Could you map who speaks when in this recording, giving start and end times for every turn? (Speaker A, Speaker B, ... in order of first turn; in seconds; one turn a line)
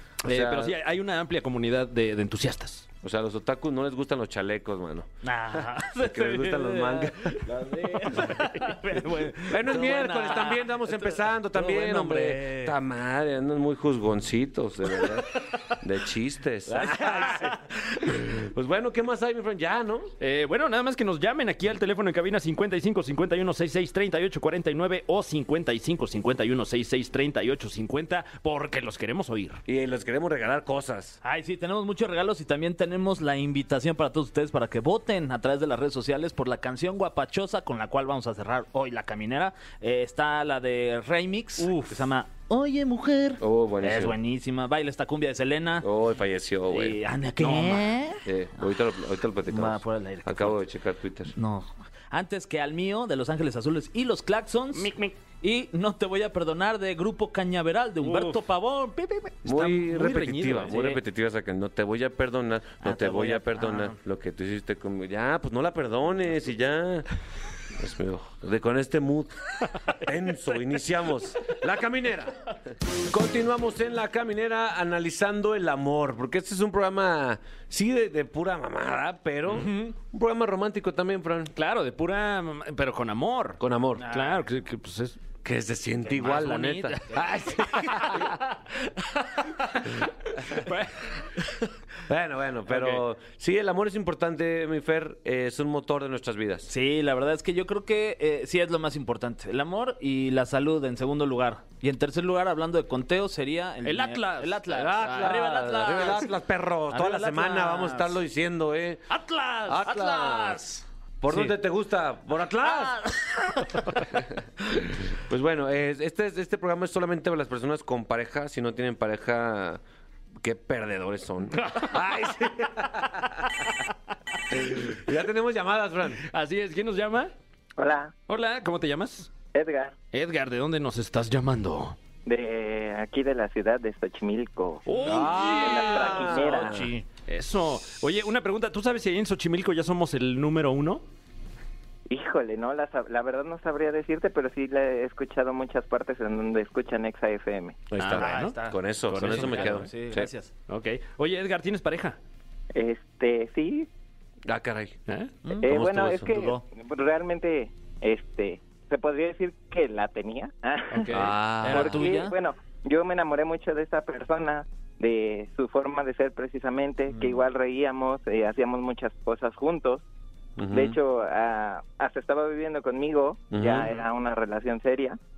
Speaker A: 0.2-2.9
Speaker B: 0.2-0.7
Speaker B: 3.0-7.5
Speaker C: 5.2-12.8
Speaker A: 8.1-9.2
Speaker B: 9.5-20.1
Speaker C: 16.7-17.7
Speaker A: 20.2-29.6
Speaker B: 29.6-31.2
Speaker C: 31.2-45.9
Speaker B: 43.4-44.2
Speaker B: 45.8-51.3
Speaker C: 46.7-48.2
Speaker C: 49.5-50.6
Speaker C: 51.3-59.4
Speaker A: 54.7-55.1
Speaker A: 58.0-58.4
Speaker A: 59.4-61.0
Speaker B: 59.4-67.1
Speaker C: 62.8-64.0
Speaker B: 67.7-81.5
Speaker A: 81.5-85.2
Speaker B: 83.6-84.1
Speaker C: 84.0-84.4
Speaker B: 85.4-88.3
Speaker A: 86.1-88.5
Speaker A: 89.4-89.9
Speaker B: 90.4-90.6
Speaker A: 90.5-91.7
Speaker B: 92.1-96.7
Speaker A: 92.7-93.0
Speaker C: 96.7-106.3
Speaker A: 103.8-105.4
Speaker B: 104.7-109.1
Speaker C: 106.9-108.2
Speaker A: 109.1-109.8
Speaker C: 109.3-110.8
Speaker B: 109.7-110.6
Speaker B: 111.2-113.0
Speaker C: 112.6-113.9
Speaker B: 114.0-119.8
Speaker B: 120.4-123.5
Speaker A: 121.6-122.0
Speaker B: 124.5-126.2
Speaker A: 126.2-127.3
Speaker D: 127.8-128.1
Speaker A: 128.3-129.3
Speaker D: 129.5-129.9
Speaker A: 130.1-131.9
Speaker D: 132.2-136.8
Speaker A: 134.8-136.6
Speaker B: 135.0-136.9
Speaker C: 136.3-137.1
Speaker A: 137.3-141.0
Speaker D: 142.1-147.8
Speaker B: 147.9-150.3
Speaker A: 148.0-148.5
Speaker C: 148.1-150.5
Speaker A: 149.1-149.9
Speaker A: 150.7-152.2
Speaker D: 152.7-153.9
Speaker B: 154.4-155.0
Speaker A: 155.1-155.3
Speaker C: 155.4-156.6
Speaker D: 155.6-161.1
Speaker B: 155.6-156.3
Speaker A: 160.9-161.3
Speaker B: 161.1-162.0
Speaker C: 161.6-162.3
Speaker D: 161.6-170.0
Speaker C: 167.1-167.4
Speaker B: 170.6-171.0
Speaker D: 170.7-175.2
Speaker B: 173.5-173.9